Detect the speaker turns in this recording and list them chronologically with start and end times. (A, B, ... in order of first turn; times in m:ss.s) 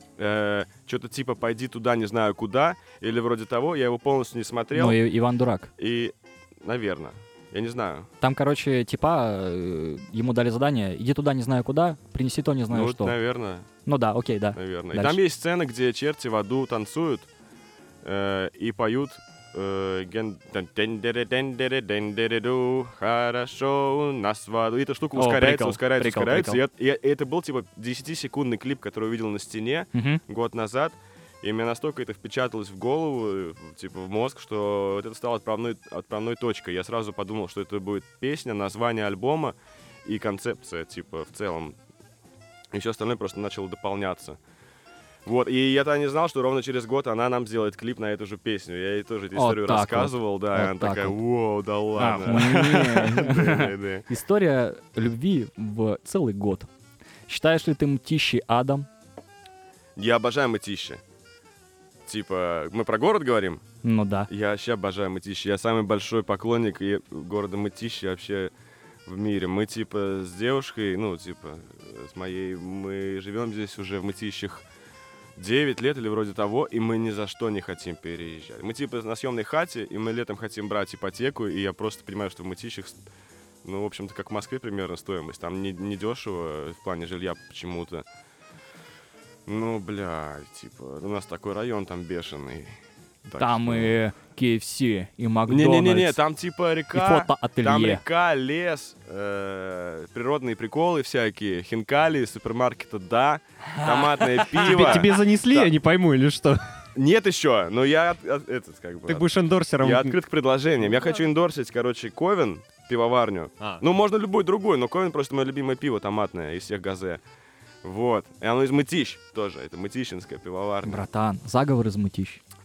0:00.2-0:05.0 A
0:04.7-0:05.7 B
0:05.8-0:08.1 A
0:08.2-0:13.2 B
0:12.7-0:13.7 A
0:13.8-0:15.2 B
0:14.5-0:17.3 A
0:18.0-0:41.8 A
0:25.1-0:26.6 B
0:29.9-0:30.2 B
0:42.7-0:44.4 A
0:45.2-0:54.1 A
0:49.3-0:51.2 B
0:52.0-0:56.7 B
0:57.3-0:58.9 B
1:00.0-1:01.0 A
1:02.0-1:03.6 A
1:03.8-1:04.3 B
1:04.3-1:08.5 A
1:09.0-1:14.6 A
1:15.4-1:23.0 A
1:23.6-1:28.0 A
1:29.4-1:34.0 A
1:33.4-1:36.2 B
1:35.5-1:45.7 A
1:36.9-1:38.0 B
1:43.8-1:45.0 B
1:44.5-1:46.6 C
1:46.9-1:57.2 A
1:49.1-1:50.2 C
1:57.8-2:01.0 A
2:00.8-2:02.4 B